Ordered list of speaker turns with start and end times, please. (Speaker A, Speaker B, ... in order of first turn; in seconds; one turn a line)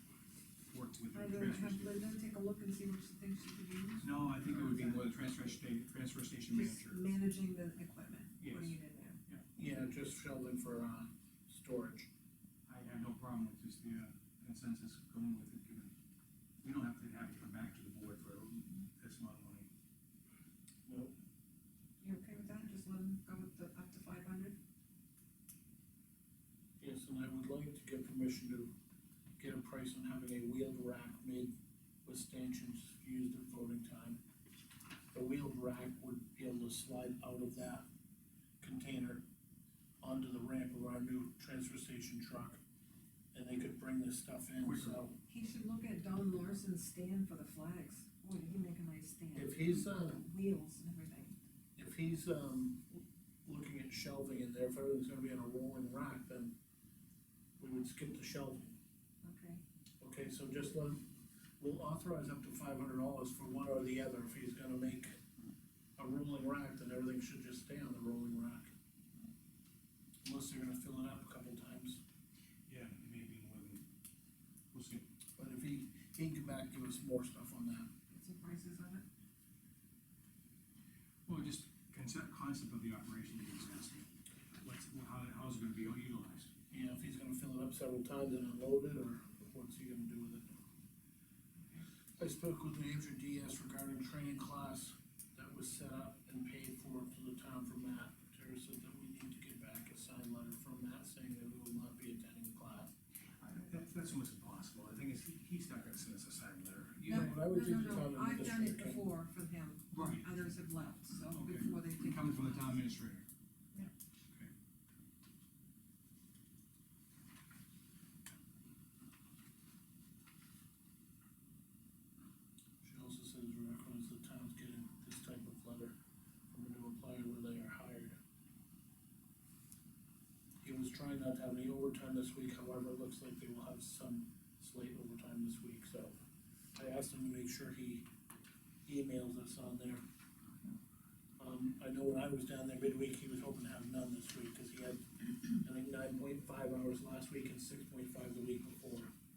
Speaker A: 0.7-2.0
Speaker B: 1.1-5.1
Speaker A: 4.0-7.0
Speaker B: 6.5-9.2
Speaker A: 8.4-8.8
Speaker C: 9.5-12.1
Speaker A: 12.7-15.9
Speaker A: 16.6-19.7
Speaker C: 20.9-21.1
Speaker B: 22.0-24.6
Speaker C: 26.8-28.7
Speaker C: 29.4-31.5
Speaker C: 32.0-34.2
Speaker C: 35.1-37.9
Speaker C: 38.6-39.2
Speaker C: 40.0-42.6
Speaker C: 43.3-45.1
Speaker A: 44.6-45.0
Speaker B: 45.3-51.4
Speaker C: 49.3-50.2
Speaker C: 51.8-56.5
Speaker C: 57.6-58.7
Speaker B: 59.2-59.6
Speaker C: 60.0-61.0
Speaker C: 61.6-65.2
Speaker C: 66.0-68.7
Speaker C: 70.2-72.0
Speaker A: 72.7-73.8
Speaker A: 74.7-75.1
Speaker C: 75.4-77.9
Speaker B: 78.1-79.0
Speaker A: 81.3-84.1
Speaker A: 84.6-86.5
Speaker C: 86.7-90.5
Speaker C: 92.2-102.9
Speaker A: 103.4-107.4
Speaker B: 107.1-112.8
Speaker C: 107.1-109.0
Speaker A: 109.9-110.3
Speaker A: 111.3-113.3
Speaker C: 122.8-126.0
Speaker C: 126.5-128.2
Speaker C: 130.6-136.2
Speaker C: 136.7-138.1
Speaker C: 138.8-140.0
Speaker C: 141.4-149.1